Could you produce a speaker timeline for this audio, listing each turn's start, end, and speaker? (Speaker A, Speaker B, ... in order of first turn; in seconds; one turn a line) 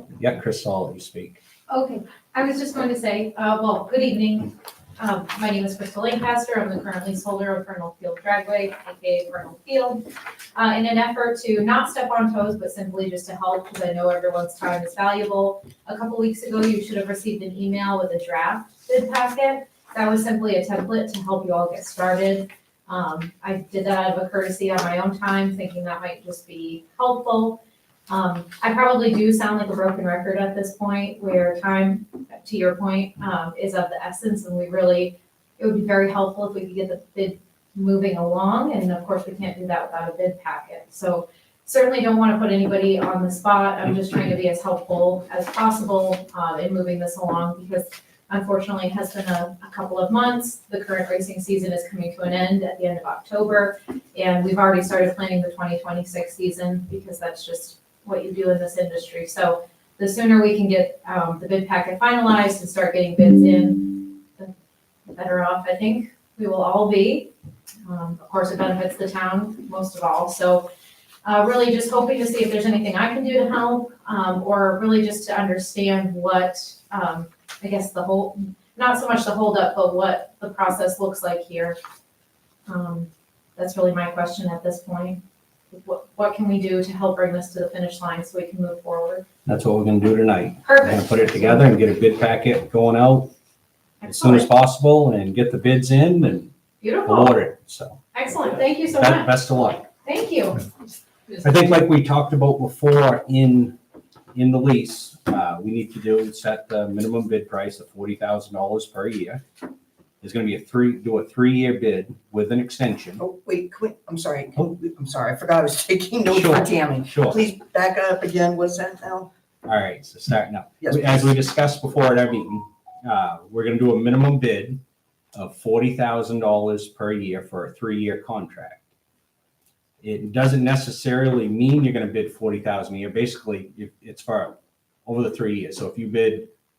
Speaker A: 0.1-1.4
Speaker B: 1.7-64.5
Speaker B: 65.1-67.3
Speaker B: 67.8-70.7
Speaker B: 71.2-81.8
Speaker B: 82.7-89.3
Speaker A: 89.5-93.3
Speaker B: 90.6-91.7
Speaker B: 94.0-94.5
Speaker A: 94.0-96.5
Speaker B: 96.8-97.5
Speaker A: 97.0-99.9
Speaker B: 98.1-99.4
Speaker B: 100.0-100.7
Speaker A: 101.4-103.8
Speaker A: 104.3-109.4
Speaker A: 110.2-113.2
Speaker C: 113.2-119.3
Speaker A: 116.3-117.4
Speaker A: 119.7-124.8
Speaker C: 120.8-121.1
Speaker A: 125.3-128.8
Speaker A: 130.0-136.5